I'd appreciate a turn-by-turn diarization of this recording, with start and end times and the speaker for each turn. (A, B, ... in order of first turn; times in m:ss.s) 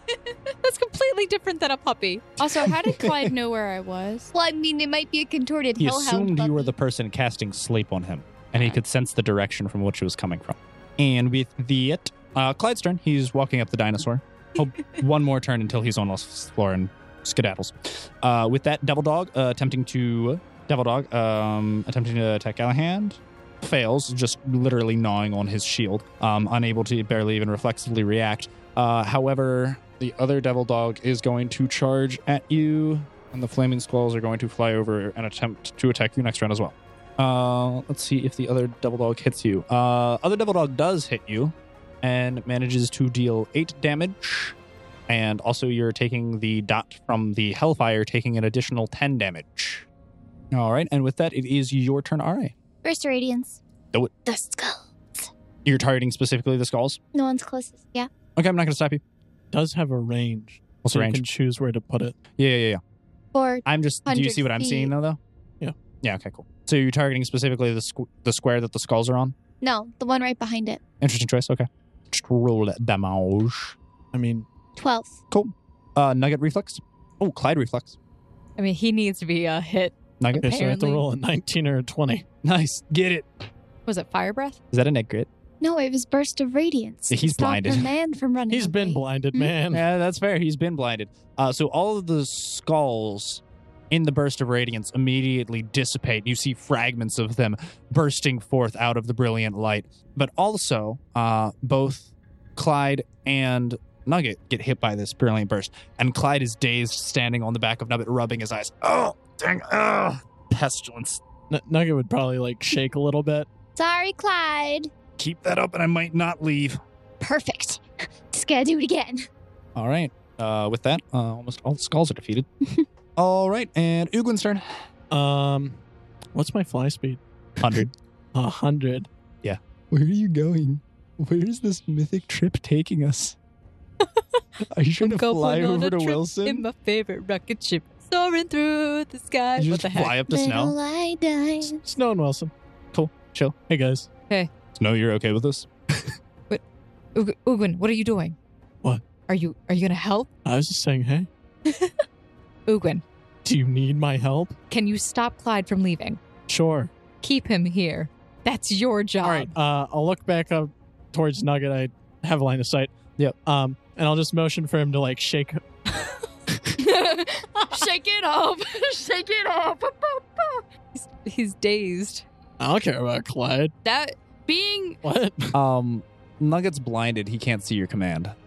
0:00.6-0:02.4 A
0:02.4-0:04.3 B
0:02.8-0:03.3 C
0:04.3-0:06.7 D
0:05.8-0:44.6 C
0:45.1-0:49.9 C
0:50.5-0:52.5 C
0:52.8-0:53.6 D
0:54.2-0:55.3 D
0:55.6-0:57.0 C
0:57.1-0:58.1 D
0:58.4-0:59.0 C
0:59.5-1:02.2 E
1:00.8-1:01.3 C
1:02.4-1:02.8 C
1:03.3-1:04.9 D
1:03.6-1:05.2 C
1:06.0-1:09.4 C
1:09.6-1:10.8 D
1:11.0-1:13.8 C
1:14.1-1:14.5 E
1:14.8-1:15.2 D
1:15.3-1:18.0 C
1:18.6-1:21.0 A
1:20.2-1:20.7 C
1:20.4-1:22.2 E
1:22.4-1:23.3 C
1:23.9-1:24.6 A
1:24.7-1:25.3 C
1:25.6-1:29.0 D
1:27.1-1:27.9 C
1:28.5-1:29.9 E
1:29.7-1:51.2 C
1:51.5-1:53.5 E
1:53.8-1:54.9 D
1:55.2-1:56.8 C
1:57.2-1:59.3 D
1:59.8-2:02.5 C
2:03.2-2:04.8 C
2:05.1-2:05.8 E
2:06.3-2:09.1 E
2:07.6-2:07.9 C
2:09.4-2:13.4 C
2:14.7-2:16.6 C
2:15.0-2:20.2 A
2:19.6-2:20.8 C
2:20.2-2:21.8 D
2:21.7-2:22.5 E
2:22.9-2:23.6 C
2:23.7-2:24.1 E
2:24.7-2:25.7 C
2:27.2-2:28.4 A
2:29.3-2:30.3 A
2:30.4-2:31.3 E
2:31.6-2:31.9 A
2:32.7-2:33.0 A
2:33.4-2:34.6 E
2:34.7-2:36.2 A
2:36.5-2:36.9 E
2:37.2-2:39.5 A
2:39.2-2:42.9 E
2:43.4-2:45.6 E
2:46.8-2:50.6 B
2:50.9-2:52.2 A
2:52.6-2:53.7 E
2:53.8-2:55.0 B
2:55.0-2:55.6 E
2:55.5-2:58.4 C